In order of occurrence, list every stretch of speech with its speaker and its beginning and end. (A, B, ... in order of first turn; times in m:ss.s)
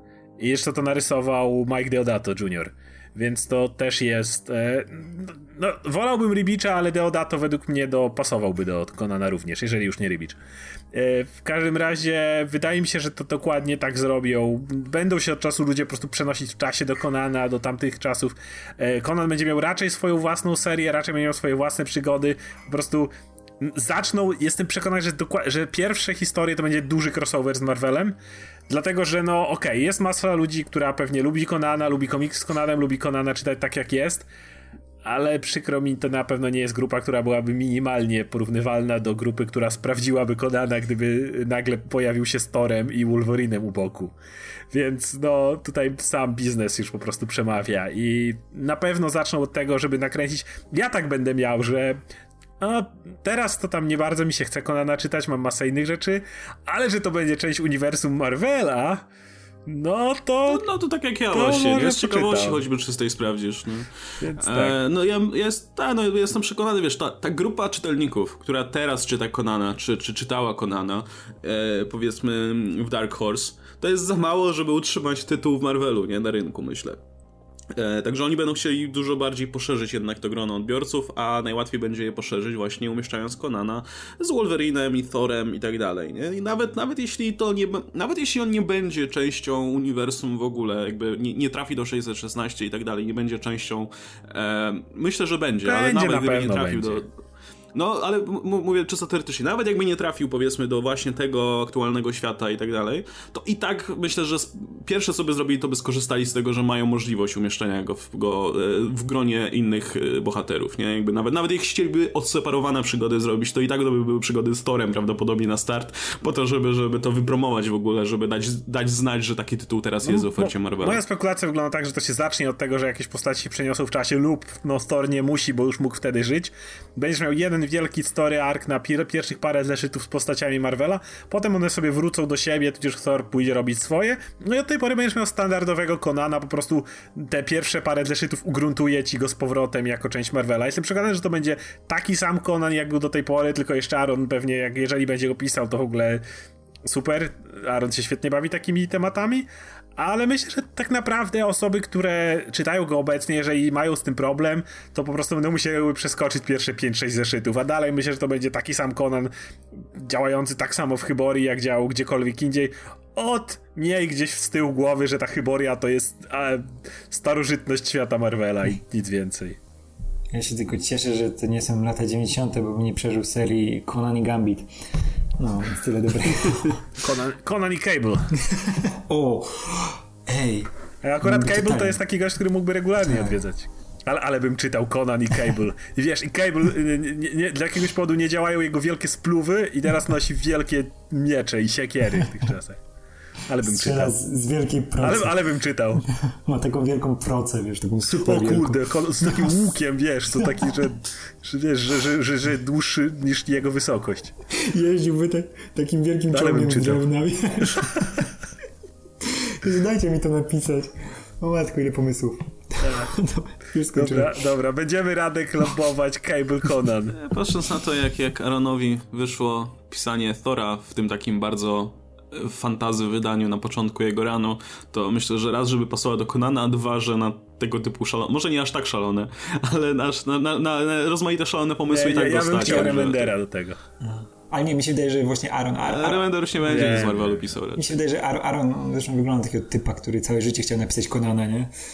0:00.4-0:10.4 A
0:10.9-0:23.1 A
0:23.6-0:28.2 A
0:28.7-0:34.3 A
0:35.0-0:44.1 A
0:44.7-0:52.0 A
0:52.6-0:59.0 A
0:59.7-1:00.7 A
1:00.5-1:17.0 B
1:01.3-1:02.6 A
1:04.2-1:04.8 A
1:17.7-1:37.1 B
1:35.6-1:37.0 A
1:37.7-2:01.0 B
2:00.1-2:26.2 A
2:26.8-2:39.3 A
2:39.9-2:49.6 A
2:50.3-2:54.7 C
2:55.4-2:56.8 C
2:57.0-2:58.3 A
2:58.8-3:00.7 C
3:01.0-3:12.8 A
3:01.2-3:02.0 C
3:03.0-3:03.4 C
3:13.5-3:14.2 A
3:13.6-3:19.7 C
3:15.0-3:16.0 A
3:18.1-3:24.3 A
3:20.3-3:20.8 C
3:24.5-3:28.3 C
3:26.3-3:27.0 A
3:29.2-3:34.5 C
3:32.8-3:33.1 A
3:33.9-3:37.2 A
3:37.1-3:53.3 B
3:51.9-3:53.8 A
3:52.6-3:53.1 C
3:54.0-3:57.2 C
3:55.9-3:57.9 B
3:56.6-3:57.4 A
3:57.8-4:01.7 C